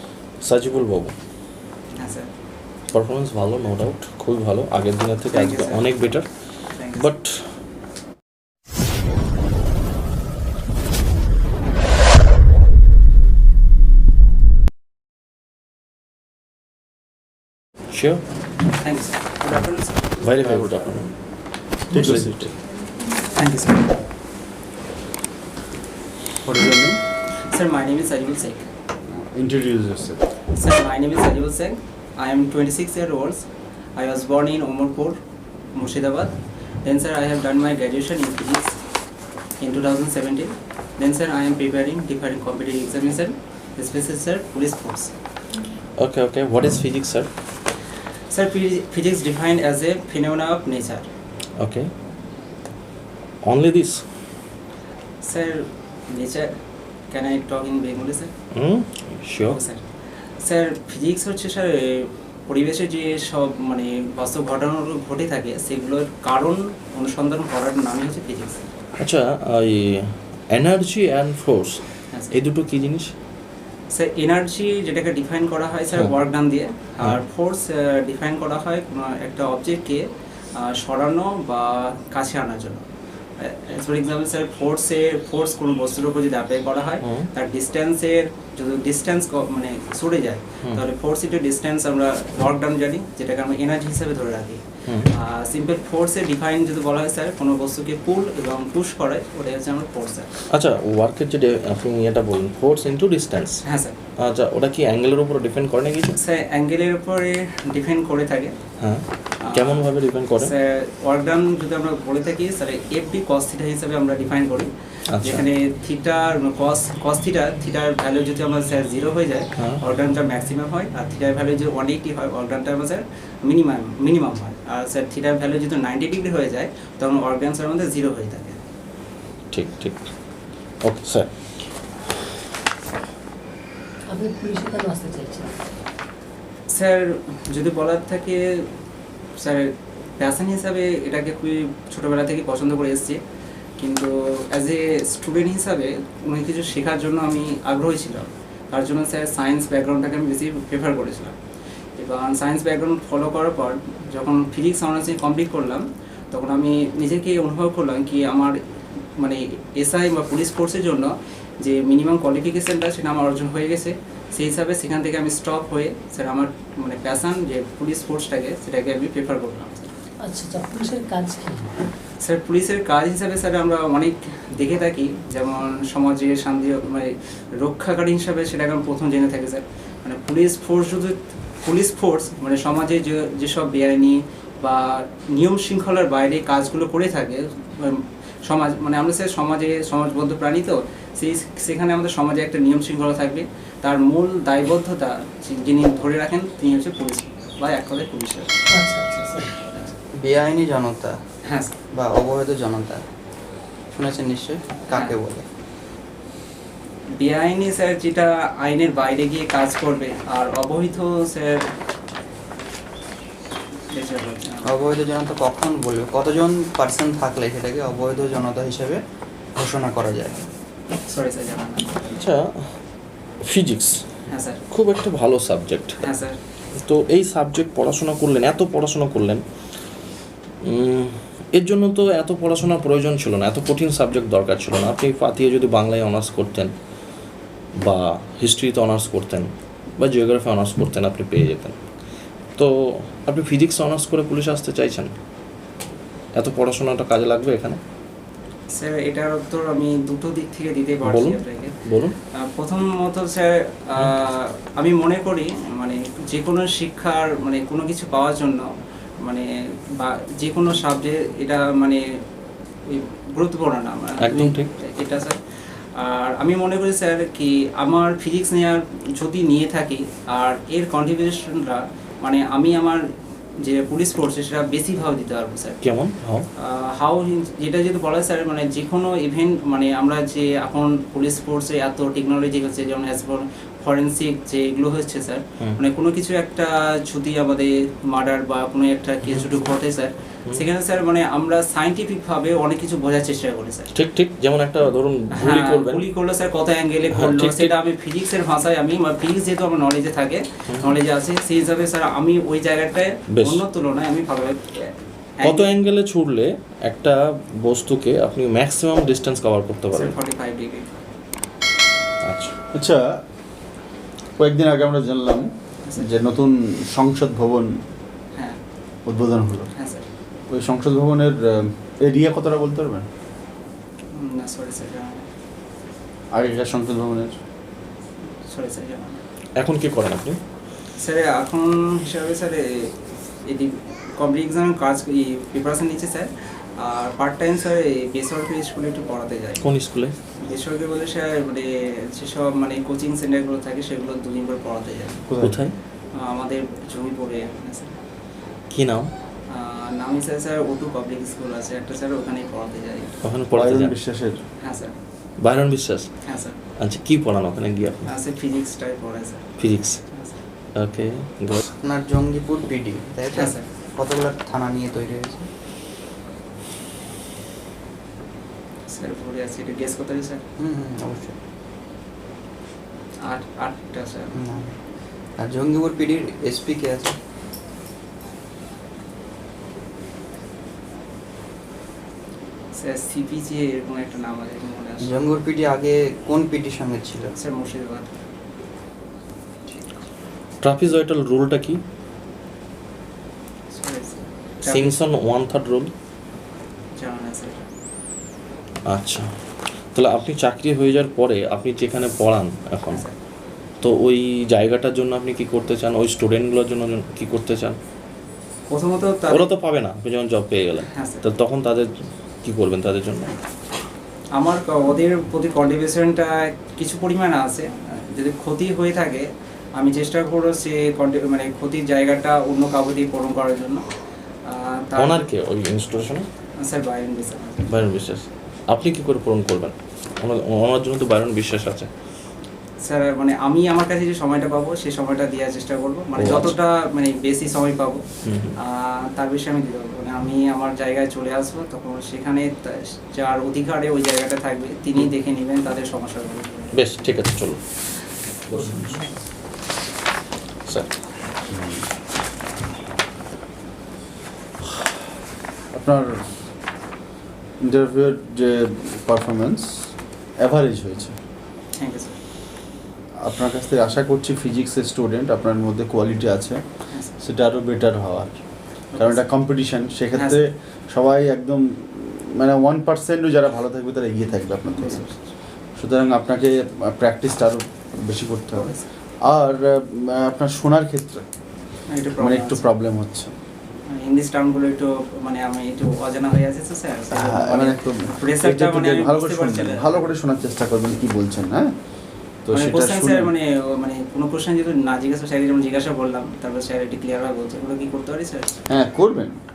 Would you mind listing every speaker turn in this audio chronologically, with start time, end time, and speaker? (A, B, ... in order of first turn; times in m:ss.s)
0:00.4-0:01.1 A
0:02.0-0:02.3 B
0:02.9-0:06.3 A
0:05.3-0:06.0 B
0:06.7-0:07.1 B
0:06.9-0:07.5 A
0:17.9-0:18.2 A
0:18.8-0:20.1 B
0:20.2-0:21.2 A
0:20.4-0:20.7 C
0:21.9-0:22.5 A
0:21.9-0:22.5 C
0:23.3-0:24.0 B
0:26.4-0:27.0 C
0:27.5-0:28.7 B
0:29.0-0:30.2 C
0:30.5-0:35.2 B
0:35.7-0:38.7 B
0:39.6-0:45.1 B
0:46.0-0:47.3 A
0:48.3-0:51.1 B
0:51.6-0:51.9 A
0:53.4-0:54.0 A
0:55.2-0:56.5 B
0:57.1-0:58.3 B
0:58.5-0:59.6 A
0:59.5-0:59.8 B
1:00.4-1:08.7 B
1:09.0-1:13.1 A
1:13.9-1:22.8 B
1:23.4-1:40.3 B
1:27.0-1:27.3 A
1:40.5-1:43.6 A
1:43.6-1:44.0 B
1:44.2-1:46.2 A
1:46.1-1:48.6 B
1:48.8-1:50.5 A
1:49.4-2:08.6 B
1:55.1-1:55.4 A
2:09.5-2:10.1 A
2:10.8-2:11.5 A
2:14.1-2:15.5 D
2:16.7-2:18.4 B
2:19.4-2:23.2 B
2:23.8-2:31.4 B
2:32.0-2:38.6 B
2:39.2-2:49.9 B
2:50.2-2:51.7 D
2:52.2-3:18.7 B
3:18.7-3:19.6 D
3:19.7-3:19.9 B
3:20.1-3:21.2 E
3:21.4-3:21.7 B
3:21.9-3:23.0 E
3:23.9-3:25.4 E
3:27.2-3:31.7 B
3:33.9-3:34.7 B
3:34.6-3:39.0 E
3:39.6-3:40.5 E
3:41.1-3:42.1 B
3:42.1-3:42.8 A
3:43.4-3:44.0 A
3:44.3-3:44.6 B
3:44.7-3:46.0 A
3:46.0-3:46.4 B
3:46.8-3:49.4 A
3:50.6-3:56.7 A
3:57.8-4:01.8 A
4:02.6-4:05.1 A
4:06.4-4:07.8 A
4:08.7-4:11.7 B
4:11.0-4:12.1 A
4:12.4-4:18.7 B
4:19.2-4:22.0 B
4:22.9-4:25.4 B
4:24.2-4:24.7 A
4:26.0-4:33.0 B
4:33.6-4:35.8 B
4:35.8-4:36.4 A
4:36.6-4:53.9 B
4:53.9-4:56.0 A
4:55.3-5:05.7 B
4:57.1-4:57.7 A
5:03.3-5:03.6 A
5:05.4-5:10.2 A
5:09.9-5:11.0 B
5:12.2-5:12.5 A
5:12.7-5:13.2 C
5:14.4-5:17.8 C
5:15.8-5:16.2 B
5:19.0-5:19.7 C
5:19.8-5:20.1 B
5:20.5-5:23.1 C
5:24.1-5:25.3 B
5:26.3-5:27.4 C
5:28.4-5:29.2 B
5:29.6-5:30.4 A
5:31.0-5:39.6 B
5:39.6-5:40.1 A
5:40.4-5:45.2 B
5:45.3-5:45.6 C
5:45.4-5:45.7 A
5:46.1-5:48.0 B
5:48.7-5:49.1 A
5:49.5-5:53.2 B
5:53.2-5:53.9 A
5:53.5-5:54.4 C
5:54.6-5:54.9 B
5:55.4-5:56.1 A
5:56.2-5:56.6 B
5:56.8-5:58.1 A
5:58.0-5:59.5 B
5:59.6-6:00.0 A
6:00.1-6:00.4 B
6:00.7-6:01.6 A
6:01.8-6:05.5 E
6:03.3-6:03.6 B
6:08.9-6:10.4 B
6:10.6-6:11.3 E
6:13.2-6:14.3 B
6:14.3-6:14.7 E
6:15.4-6:17.2 E
6:22.7-6:25.3 B
6:25.0-6:27.3 E
6:27.2-6:28.1 B
6:30.6-6:31.8 A
6:33.7-6:35.0 B
6:34.6-6:35.9 A
6:37.0-6:37.7 B
6:38.8-6:39.3 A
6:39.8-6:43.0 A
6:43.8-6:47.8 A
6:48.7-6:49.5 B
6:49.3-6:53.3 A
6:50.9-6:51.2 B
6:54.4-7:03.8 B
7:04.5-7:05.3 B
7:05.0-7:06.2 A
7:06.6-7:07.8 B
7:07.7-7:11.9 A
7:12.8-7:18.0 B
7:16.2-7:16.5 A
7:18.2-7:18.6 A
7:18.6-7:27.2 B
7:26.7-7:27.6 A
7:28.5-7:29.0 A
7:28.6-7:29.0 B
7:30.7-7:30.9 A
7:31.5-7:31.9 C
7:35.7-7:36.4 C
7:37.6-7:41.2 C
7:41.8-7:42.2 B
7:43.2-7:46.6 C
7:47.2-7:48.4 C
7:48.9-7:55.0 C
7:48.9-7:49.2 B
7:50.1-7:50.4 B
7:54.8-7:55.3 B
7:55.8-8:01.2 C
7:58.5-7:58.9 B
8:01.9-8:02.6 B
8:02.2-8:03.3 C
8:04.0-8:10.1 B
8:07.1-8:11.7 C
8:12.4-8:13.3 C
8:12.5-8:18.6 B
8:18.7-8:19.4 C